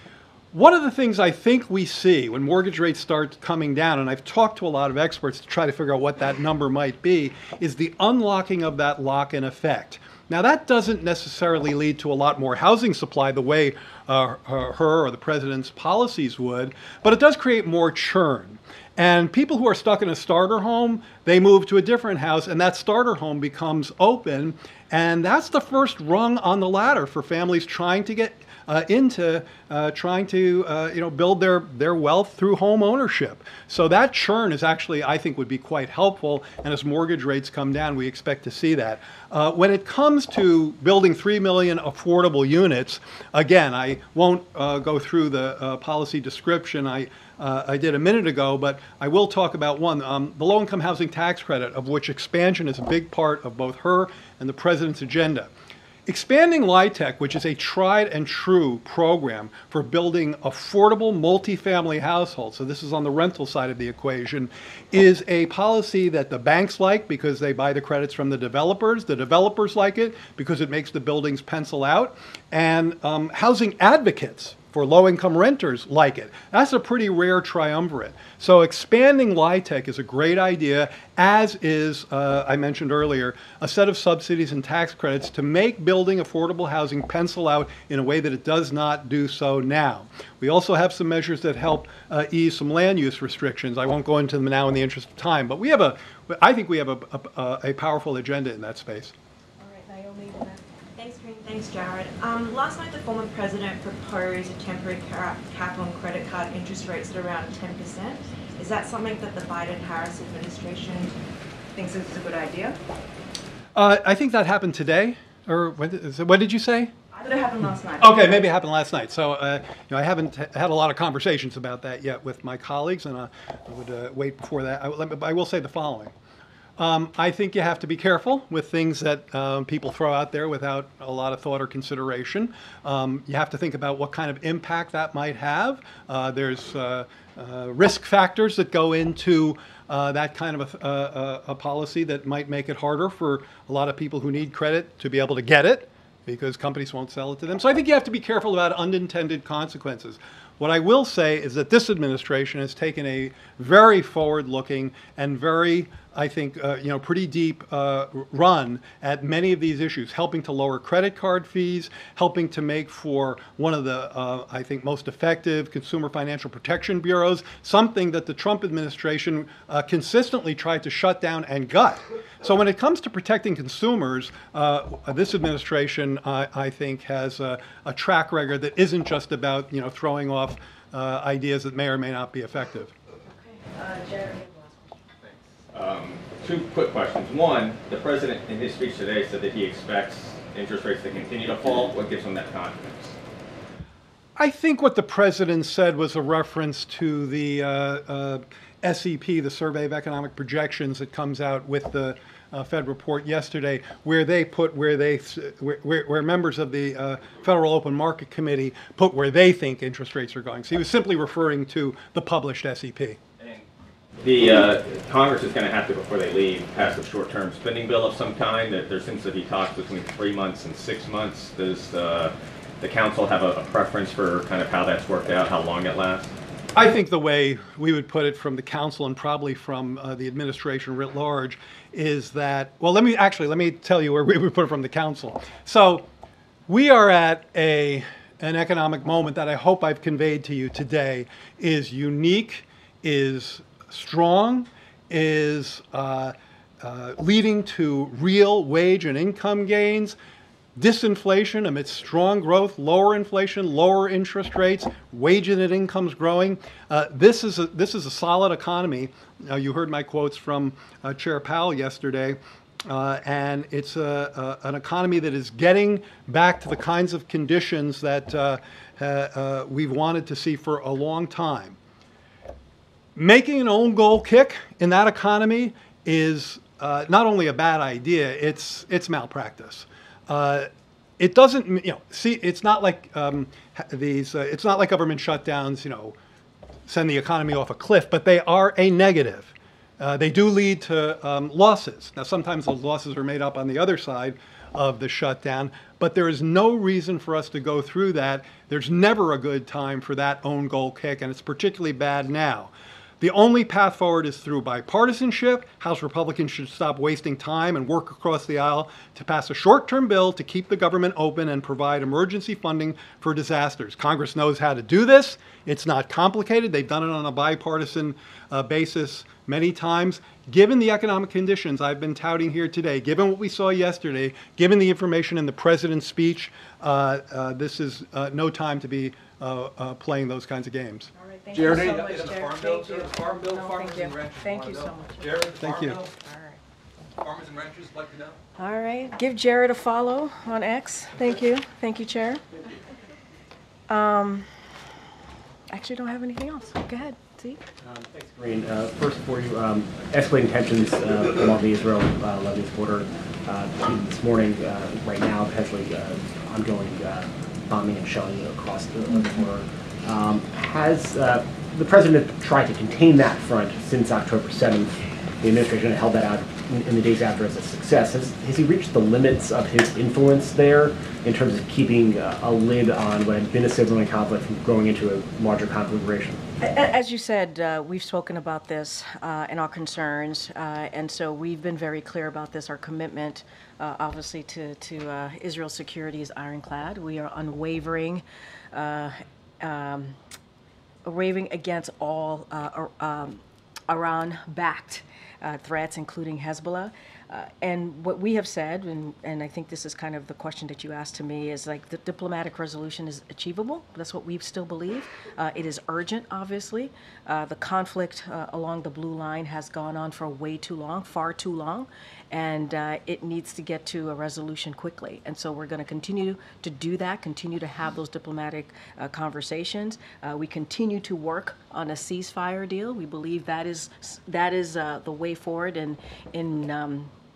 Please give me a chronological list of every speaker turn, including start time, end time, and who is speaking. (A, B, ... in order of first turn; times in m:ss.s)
0:00.5-0:55.5 A
0:56.0-1:39.1 A
1:39.8-1:40.2 B
1:40.9-1:51.1 B
1:51.7-1:52.8 B
1:53.7-1:56.9 A
1:57.1-1:58.4 B
1:58.0-2:06.1 A
2:06.8-3:02.9 A
3:05.2-3:05.5 C
3:05.7-3:13.0 D
3:14.4-3:33.2 A
3:33.4-3:33.6 D
3:34.2-3:46.3 D
3:46.7-3:56.0 A
3:56.7-4:10.2 A
4:10.8-4:31.8 A
4:33.1-4:46.1 A
4:46.9-5:31.1 A
5:31.2-5:36.6 E
5:31.5-5:36.1 C
5:35.6-5:36.0 A
5:37.2-5:38.4 C
5:38.6-5:42.4 E
5:43.9-5:44.5 E
5:45.7-5:47.6 E
5:47.8-6:16.4 F
6:16.6-6:30.2 E
6:31.0-7:07.1 E